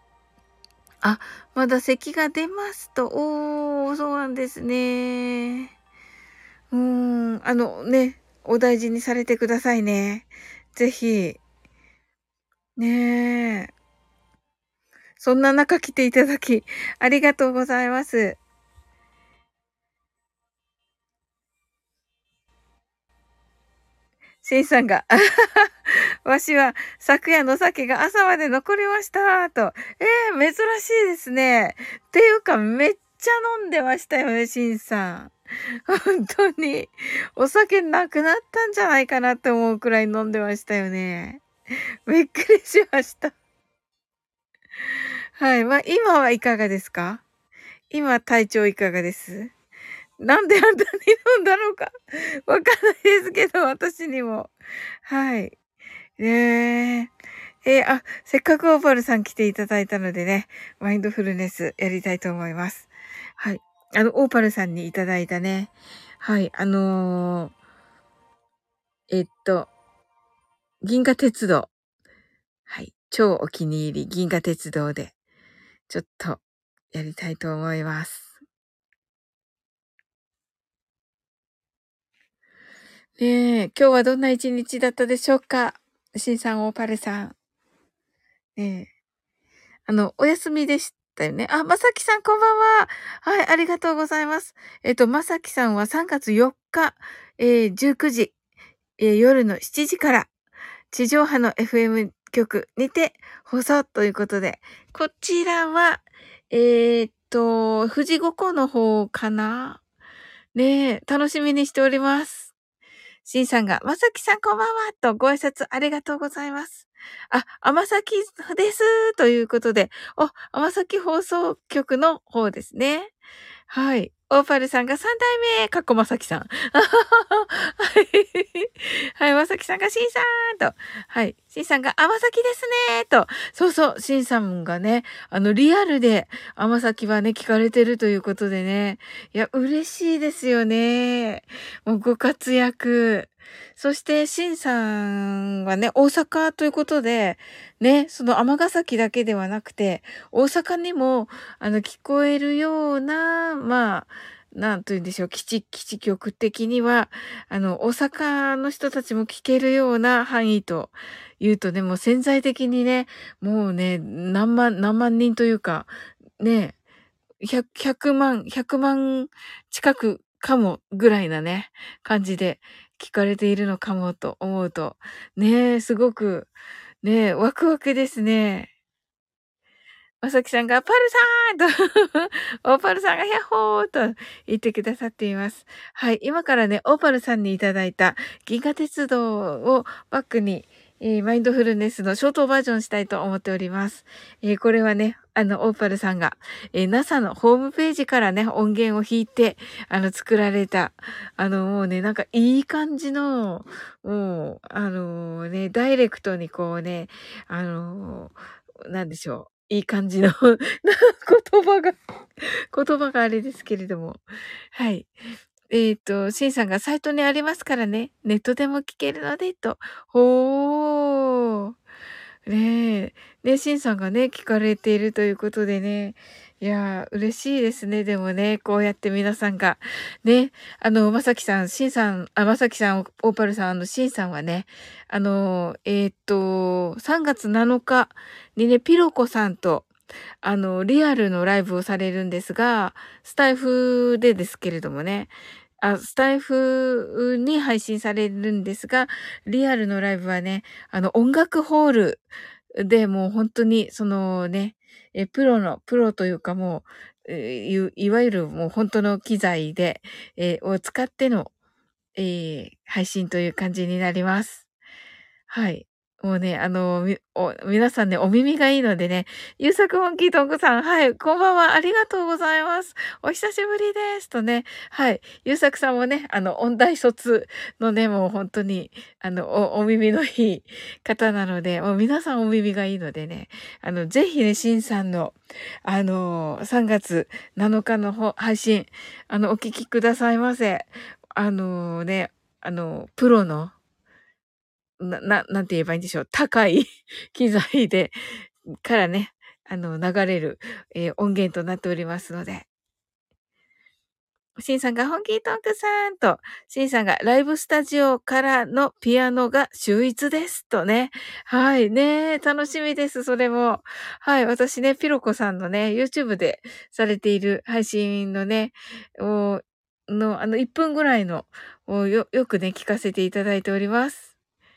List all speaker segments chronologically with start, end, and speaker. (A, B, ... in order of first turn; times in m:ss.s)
0:01.0-0:05.7 A
0:06.7-0:11.4 A
0:12.8-0:13.7 A
0:15.2-0:18.4 A
0:24.4-0:35.3 A
0:35.8-0:41.4 A
0:42.1-0:43.3 A
0:45.4-0:47.2 A
0:47.9-0:49.5 A
0:50.2-0:54.5 A
0:55.0-0:55.5 A
0:56.2-0:57.1 A
0:57.6-1:07.5 A
1:09.1-1:09.7 A
1:10.8-1:11.7 A
1:12.7-1:15.1 A
1:15.9-1:16.4 A
1:16.9-1:18.3 A
1:23.2-1:27.3 A
1:28.6-1:28.9 A
1:29.9-1:38.3 A
1:39.0-1:40.3 A
1:40.9-1:49.8 A
1:50.5-1:52.5 A
1:53.2-2:03.1 A
2:03.7-2:46.7 A
2:47.4-2:56.5 A
2:57.0-2:58.7 A
3:00.2-3:34.2 A
3:34.7-3:35.1 A
3:35.7-3:41.7 A
3:42.4-3:59.9 A
4:00.4-4:12.2 A
4:12.8-4:21.5 A
4:22.2-4:24.6 A
4:25.5-4:53.7 A
4:55.0-4:58.2 A
4:58.8-5:02.7 A
5:04.6-5:24.3 A